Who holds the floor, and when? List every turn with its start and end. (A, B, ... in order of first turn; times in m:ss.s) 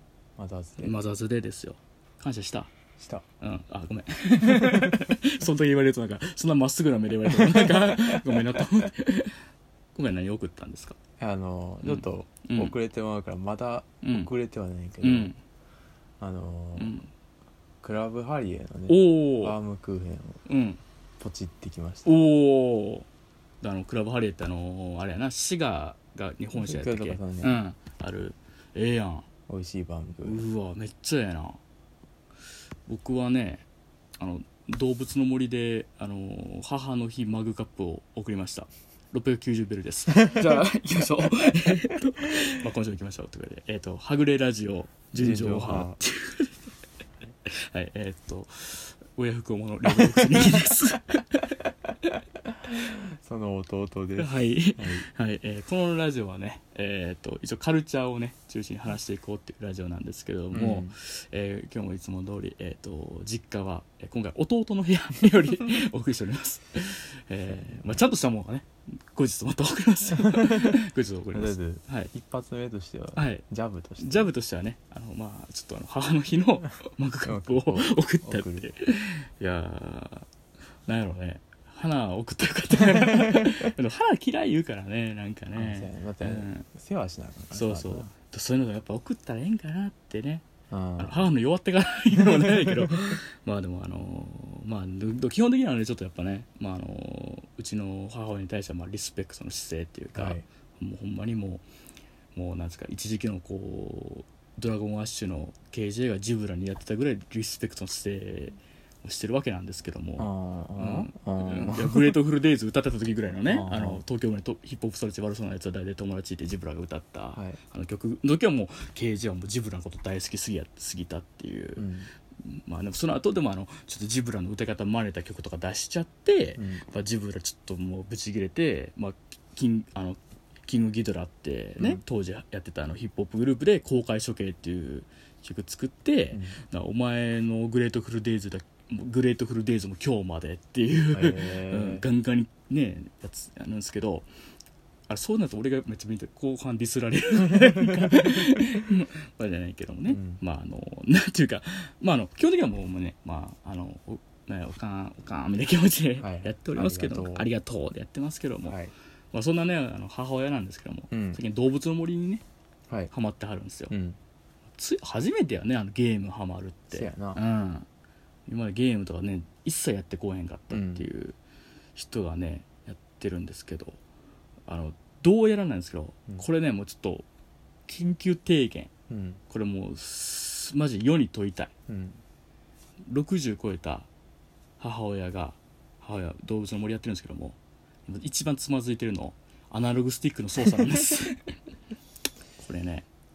0:00.4-0:01.0 A
0:00.8-0:02.7 B
0:03.0-0:03.2 A
0:03.4-0:09.3 B
0:04.4-0:05.1 A
0:07.3-0:08.9 A
0:09.9-0:11.0 B
0:11.2-0:15.3 A
0:11.8-0:12.7 B
0:14.0-0:14.3 B
0:15.0-0:15.4 B
0:16.2-0:17.0 A
0:16.8-0:17.1 B
0:17.8-0:20.4 A
0:18.9-0:19.6 B
0:20.5-0:20.8 B
0:21.2-0:22.2 A
0:22.0-0:23.1 B
0:23.6-0:29.3 B
0:26.5-0:27.6 A
0:29.5-0:30.4 A
0:30.2-0:31.6 B
0:32.9-0:33.6 B
0:34.2-0:46.5 B
0:40.2-0:40.6 A
0:45.1-0:46.0 A
0:47.4-0:52.2 B
0:49.9-0:50.7 A
0:52.4-0:55.0 A
0:54.2-1:12.1 B
1:00.5-1:00.9 A
1:07.5-1:08.0 A
1:10.2-1:10.8 A
1:11.3-1:14.3 A
1:13.2-1:13.4 B
1:14.0-1:20.3 B
1:17.2-1:18.7 A
1:20.8-1:26.7 B
1:22.8-1:23.7 A
1:25.5-1:28.1 A
1:27.5-1:30.4 B
1:30.7-1:31.3 A
1:31.0-1:41.6 B
1:32.2-1:33.0 A
1:40.1-1:40.4 A
1:42.3-2:01.9 B
1:50.2-1:52.2 A
1:53.4-1:54.0 A
2:01.8-2:02.1 A
2:02.4-2:24.3 B
2:06.6-2:06.8 A
2:16.3-2:16.6 A
2:21.1-2:22.0 A
2:25.1-2:38.8 B
2:27.6-2:28.4 A
2:30.1-2:30.4 A
2:36.2-2:37.5 A
2:38.6-2:38.9 A
2:39.3-2:42.4 B
2:41.1-2:41.4 A
2:43.1-2:43.9 B
2:43.9-2:44.2 A
2:44.8-2:47.8 B
2:46.9-2:47.4 A
2:48.5-2:51.4 B
2:50.7-2:51.0 A
2:51.9-2:54.0 B
2:54.7-2:57.2 B
2:57.9-2:58.9 B
2:59.1-2:59.4 A
2:59.5-3:01.7 B
3:01.9-3:02.2 A
3:03.0-3:04.1 B
3:04.8-3:11.5 B
3:12.6-3:13.1 B